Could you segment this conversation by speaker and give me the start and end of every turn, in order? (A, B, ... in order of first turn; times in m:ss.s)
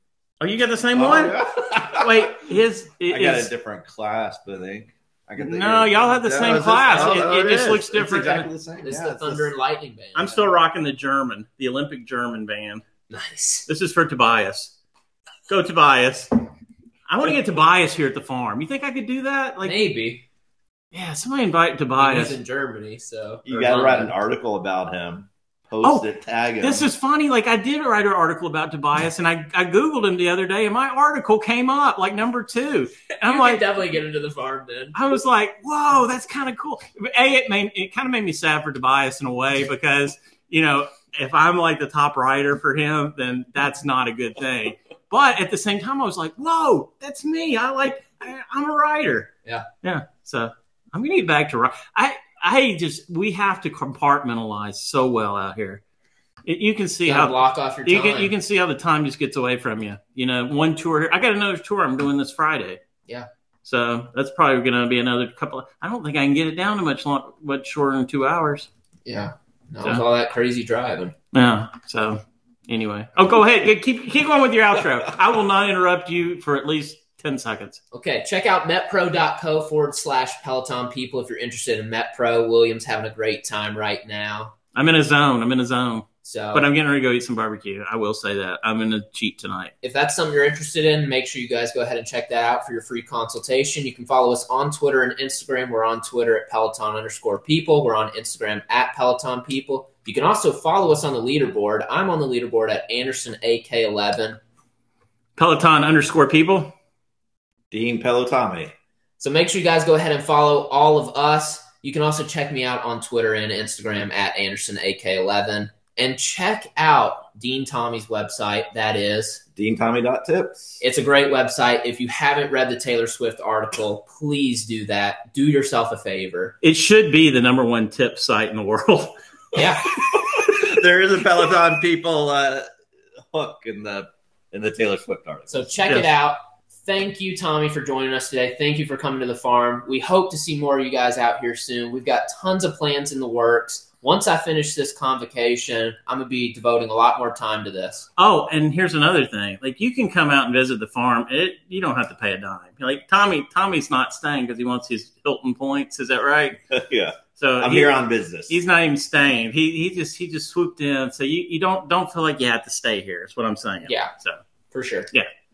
0:00.4-0:01.4 A
0:00.9-0:02.5 B
0:01.9-0:03.5 A
0:03.1-0:09.5 B
0:05.4-0:08.5 A
0:08.8-0:10.5 C
0:10.2-0:12.8 A
0:13.1-0:13.7 C
0:13.7-0:14.7 A
0:15.5-0:16.3 A
0:17.1-0:19.8 A
0:19.6-0:20.2 C
0:20.9-0:22.4 A
0:22.0-0:24.1 C
0:23.5-0:26.9 B
0:26.6-0:33.6 A
0:33.2-0:35.0 C
0:34.9-0:55.8 A
0:56.4-1:02.8 A
0:57.0-0:58.3 C
1:03.6-1:08.7 A
1:09.1-1:11.2 C
1:11.3-1:17.8 A
1:17.9-1:24.5 C
1:24.7-1:29.7 A
1:26.2-1:26.6 C
1:29.8-1:44.4 C
1:45.4-1:46.8 A
1:47.7-1:48.7 B
1:49.2-1:59.4 C
1:59.6-2:00.8 B
2:00.8-2:06.6 C
2:06.6-2:09.2 A
2:09.6-2:09.9 C
2:10.0-2:12.7 B
2:13.3-2:15.7 B
2:15.5-2:28.1 C
2:28.2-2:36.6 A
2:36.7-2:38.6 B
2:37.4-2:38.0 A
2:38.5-2:44.4 A
2:43.9-2:44.1 C
2:44.7-2:45.1 C